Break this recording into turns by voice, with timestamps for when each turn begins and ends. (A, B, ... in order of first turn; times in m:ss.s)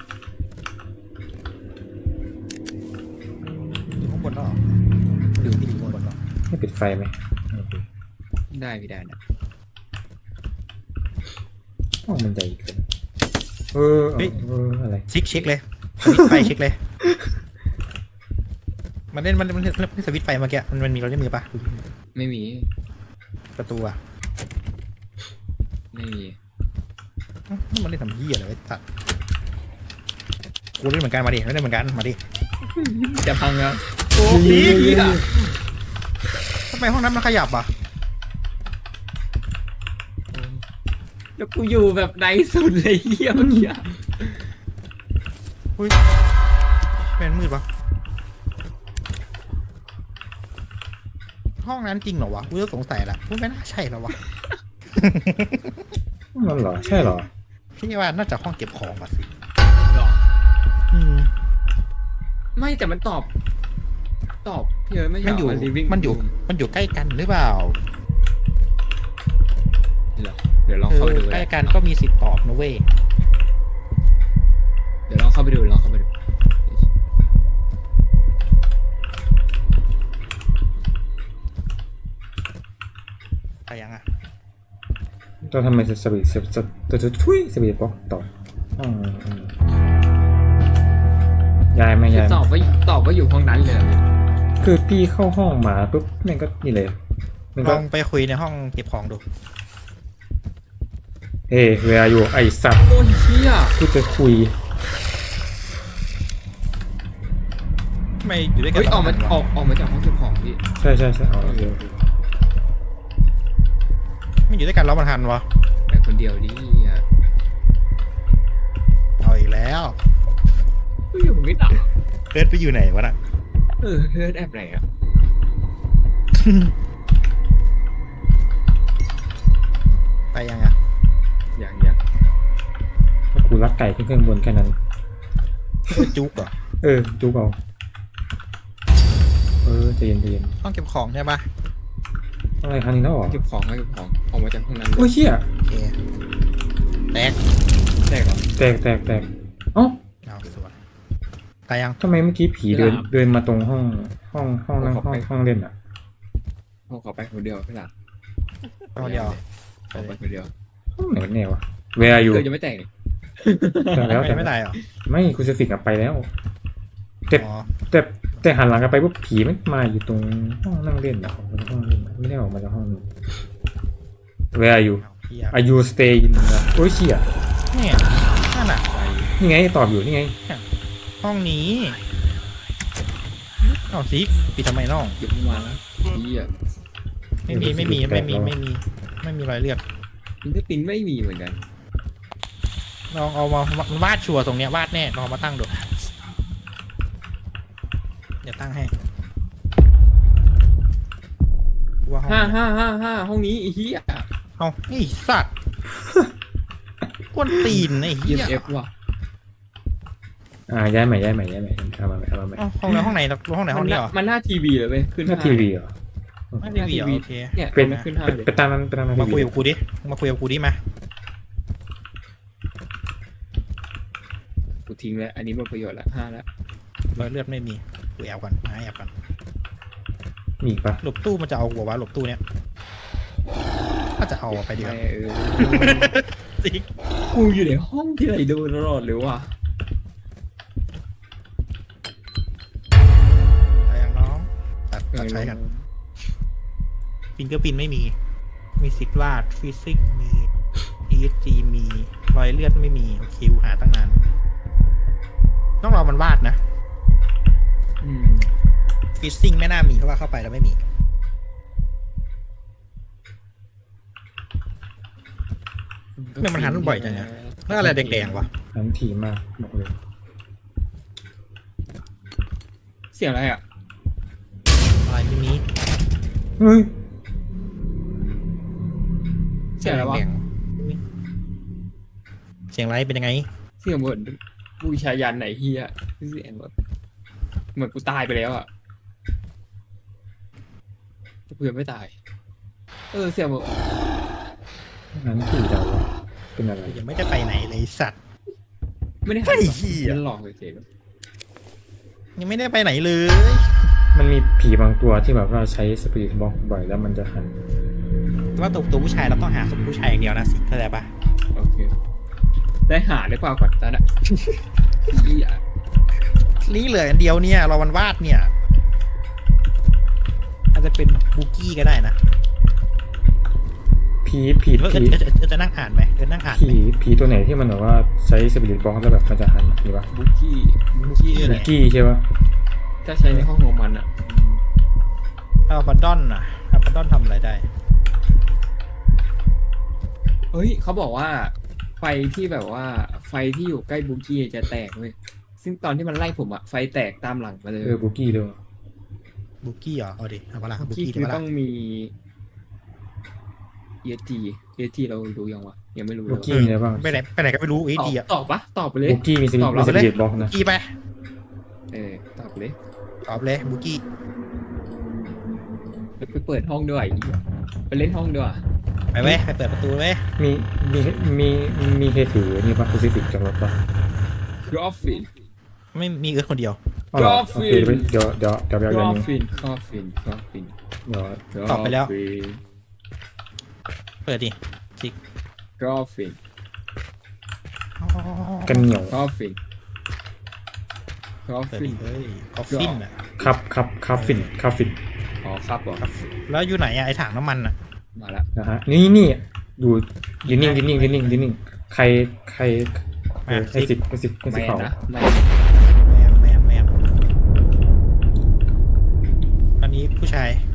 0:03.8-0:04.6 A
0:05.4-0:06.2 A
0:05.4-0:06.0 B
0:06.5-0:07.8 C
0:08.5-0:09.2 B
0:12.0-0:12.8 C
0:13.7-0:15.1 C
0:15.1-0:16.8 A
0:16.0-0:16.5 C
0:17.0-0:17.3 C
0:19.1-0:21.8 A
0:22.1-0:22.7 B
0:23.6-0:24.0 A
0:25.9-0:26.4 B
0:27.5-0:28.8 A
0:30.8-0:32.2 A
0:32.7-0:35.3 B
0:34.2-0:35.3 C
0:34.4-0:35.0 A
0:36.7-0:37.7 A
0:41.4-0:44.4 B
0:43.4-0:43.6 C
0:47.0-0:47.6 A
0:51.6-0:54.2 A
0:55.0-0:55.8 A
0:56.3-0:57.3 C
0:56.8-0:57.2 A
0:57.8-0:59.3 A
0:59.9-1:00.2 B
1:00.9-1:01.3 A
1:02.6-1:03.3 B
1:04.4-1:06.3 B
1:05.2-1:07.8 A
1:10.2-1:11.8 B
1:10.9-1:12.9 A
1:15.1-1:16.1 B
1:23.7-1:24.0 A
1:25.4-1:29.5 C
1:31.7-1:32.5 C
1:32.1-1:34.0 B
1:34.6-1:37.0 C
1:37.5-1:37.8 C
1:37.6-1:39.2 A
1:41.5-1:42.9 C
1:42.9-1:43.8 B
1:43.8-1:44.6 C
1:48.2-1:49.4 A
1:48.7-1:50.6 B
1:50.8-1:51.9 C
1:51.3-1:52.0 B
1:54.5-1:55.4 A
1:55.9-1:57.0 B
1:59.2-2:00.0 A
2:01.1-2:01.9 B
2:02.3-2:03.2 A
2:03.8-2:04.8 B
2:06.3-2:06.7 A
2:10.3-2:10.7 A
2:11.6-2:12.0 B
2:13.3-2:14.8 C
2:15.9-2:16.5 A
2:16.8-2:17.6 C
2:19.6-2:20.6 C
2:20.6-2:21.4 A
2:22.6-2:23.4 C
2:23.3-2:25.1 B
2:25.0-2:25.4 C
2:25.7-2:26.0 A
2:27.1-2:27.4 A
2:28.0-2:28.5 B
2:28.6-2:30.0 C
2:30.2-2:30.8 A
2:31.7-2:32.0 A
2:32.0-2:35.7 C
2:32.7-2:33.1 B
2:34.8-2:35.3 B
2:36.9-2:37.9 B
2:38.9-2:39.4 A
2:39.0-2:39.4 B
2:39.9-2:40.2 A
2:39.9-2:40.5 B
2:41.0-2:42.5 C
2:42.0-2:44.2 B
2:43.9-2:46.3 C
2:44.0-2:44.8 A
2:47.3-2:53.0 C
2:47.4-2:47.8 A
2:54.5-2:57.3 C
2:55.0-2:55.6 A
2:57.7-2:58.8 A
2:58.9-2:59.3 B
2:59.4-3:00.4 C
3:01.2-3:02.0 A
3:03.7-3:05.2 A
3:05.2-3:06.5 B
3:07.5-3:09.8 A
3:07.5-3:08.6 C
3:10.4-3:11.6 B
3:13.1-3:15.8 A
3:18.4-3:18.9 A
3:22.0-3:22.6 A
3:22.3-3:24.2 B
3:24.6-3:25.5 A
3:27.3-3:28.7 A
3:27.5-3:27.8 C
3:28.2-3:28.9 B
3:30.7-3:33.1 C
3:32.6-3:34.1 A
3:33.7-3:35.7 B
3:35.2-3:35.9 C
3:36.5-3:36.9 C
3:36.6-3:38.1 A
3:36.7-3:38.5 B
3:37.7-3:39.6 C
3:39.1-3:40.8 A
3:44.8-3:46.4 B
3:47.1-3:49.1 A
3:50.6-3:51.0 C
3:51.0-3:52.4 A
3:54.2-3:55.0 A
3:54.5-3:56.2 B
3:55.6-3:56.8 A
3:57.3-3:59.5 B
4:03.9-4:05.6 A
4:05.1-4:05.8 B
4:07.4-4:08.1 A
4:08.8-4:10.5 A
4:11.1-4:14.2 A
4:15.8-4:16.6 A
4:18.0-4:18.5 B
4:19.2-4:20.8 A
4:26.2-4:28.5 B
4:26.4-4:28.5 A
4:28.7-4:29.9 C
4:33.1-4:33.6 B
4:35.0-4:35.6 A
4:36.6-4:36.9 C
4:39.8-4:40.2 B
4:39.8-4:41.0 A
4:42.7-4:43.5 A
4:43.8-4:46.7 B
4:47.7-4:48.7 B
4:51.5-4:52.1 B
4:53.1-4:53.7 B
4:55.1-4:57.0 C
4:56.8-4:58.2 A
4:59.2-5:00.8 B
4:59.4-5:00.2 A
5:02.4-5:03.7 A
5:04.1-5:07.6 C
5:08.6-5:11.1 A
5:11.5-5:11.9 B
5:12.9-5:15.6 B
5:16.6-5:18.5 A
5:20.7-5:22.2 A
5:24.2-5:25.2 C
5:24.8-5:26.8 A
5:26.5-5:30.1 C
5:30.1-5:31.6 B
5:31.0-5:31.7 A
5:31.4-5:32.2 C
5:33.0-5:34.6 B
5:35.7-5:37.7 A
5:40.5-5:48.0 B
5:47.8-5:48.6 C
5:49.6-5:51.4 A
5:50.8-5:52.1 B
5:54.0-5:56.5 B
5:56.3-5:57.2 C
5:56.4-5:58.2 A
5:58.0-6:00.0 B
5:59.0-6:00.5 C
5:59.7-6:00.9 A
6:01.9-6:02.8 B
6:03.2-6:04.0 A
6:06.2-6:08.6 B
6:09.1-6:10.2 A
6:10.4-6:13.8 C
6:14.6-6:15.3 B
6:15.9-6:16.8 A
6:17.1-6:19.3 C
6:17.1-6:18.1 B
6:18.9-6:20.7 B
6:21.0-6:21.4 C
6:21.5-6:22.6 B
6:21.7-6:22.1 A
6:24.2-6:25.2 A
6:25.8-6:26.4 B
6:28.0-6:28.9 A
6:28.6-6:29.2 C
6:29.1-6:29.6 B
6:31.4-6:32.0 B
6:31.7-6:33.2 A
6:32.7-6:33.0 B
6:33.4-6:35.0 C
6:34.1-6:34.5 A
6:35.4-6:36.0 B
6:36.0-6:37.7 A
6:38.1-6:38.4 B
6:38.5-6:44.9 C
6:40.4-6:41.4 A
6:43.4-6:44.0 A
6:44.4-6:45.5 B
6:45.8-6:47.0 A
6:49.8-6:50.6 A